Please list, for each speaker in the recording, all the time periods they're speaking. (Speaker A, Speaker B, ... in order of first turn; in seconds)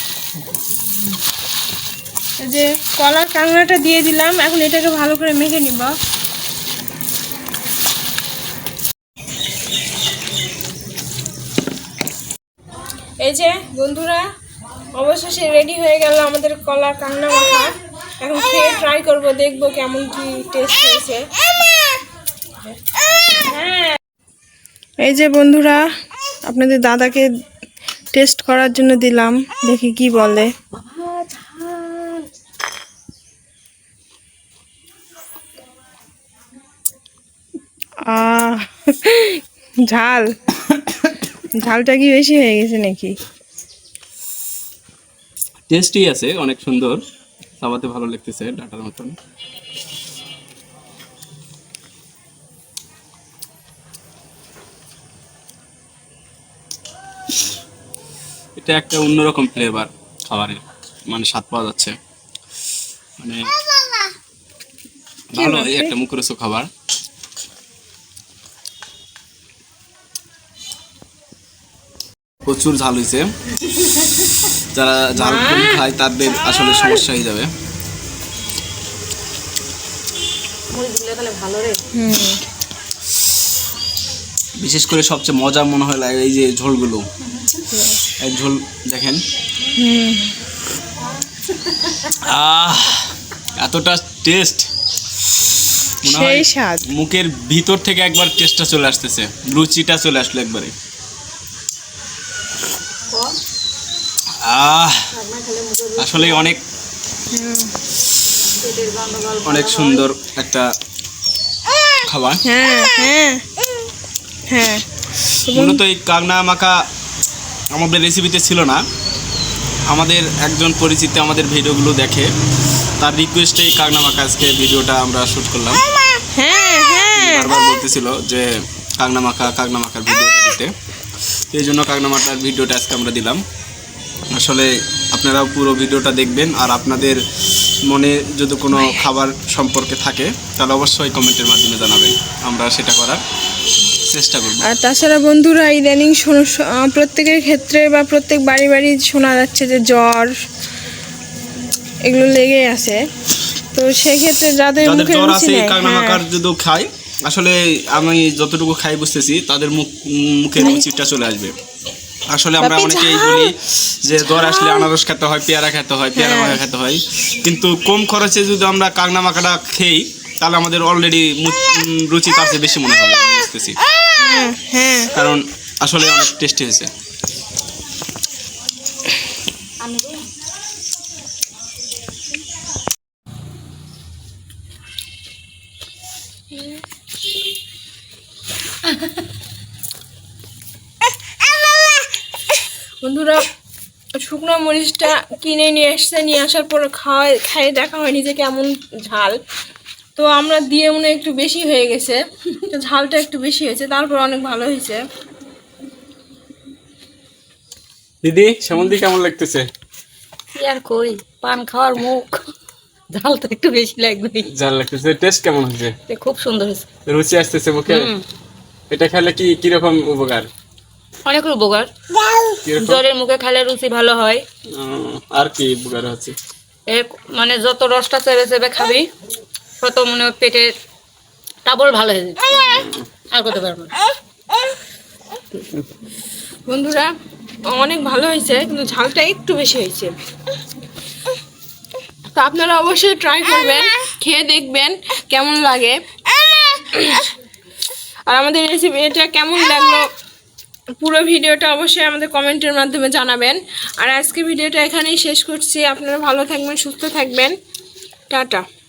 Speaker A: 2.4-5.9, 13.2-14.2, 14.9-21.2, 23.3-24.0, 25.0-25.8, 26.4-27.3, 28.1-30.5, 38.1-40.3, 41.5-43.2, 65.3-65.9, 75.2-75.8, 81.9-82.4, 87.7-88.1, 89.8-90.3, 96.0-96.9, 107.3-107.7, 112.4-113.4, 114.5-114.8, 115.5-115.8, 126.4-127.5, 144.6-150.4, 152.1-153.0, 153.7-156.2, 162.6-163.5, 164.3-164.9, 166.2-166.6, 174.2-175.1, 193.0-193.5, 194.2-199.4, 200.2-205.0, 236.7-237.1, 237.7-240.1, 242.3-246.0, 246.6-247.3, 248.3-250.1, 251.0-257.6, 258.3-258.6
Speaker B: 30.8-32.3, 76.5-76.8, 80.7-81.8, 91.7-92.1, 103.1-103.4, 105.1-106.6, 108.5-110.1, 179.8-180.2, 210.6-212.5, 213.1-214.5, 216.1-216.9, 217.9-218.2, 221.3-224.4, 226.9-229.1, 229.8-230.7, 231.7-234.0
Speaker C: 45.7-47.0, 47.6-49.2, 58.6-62.0, 63.2-63.5, 65.3-66.7, 72.5-73.3, 74.7-77.5, 84.6-87.0, 88.2-89.2, 92.1-94.7, 96.0-100.7, 104.4-105.1, 106.0-106.6, 109.4-110.7, 112.1-112.4, 115.5-116.8, 117.7-118.8, 119.9-122.3, 123.0-125.8, 127.2-128.5, 129.0-130.7, 131.5-133.4, 134.3-137.2, 137.9-143.2, 144.1-144.7, 154.8-161.6, 162.3-173.8, 175.1-176.9, 208.2-209.7, 214.5-216.0, 217.1-218.1, 218.9-220.5, 222.7-223.0, 224.7-226.4, 232.5-233.1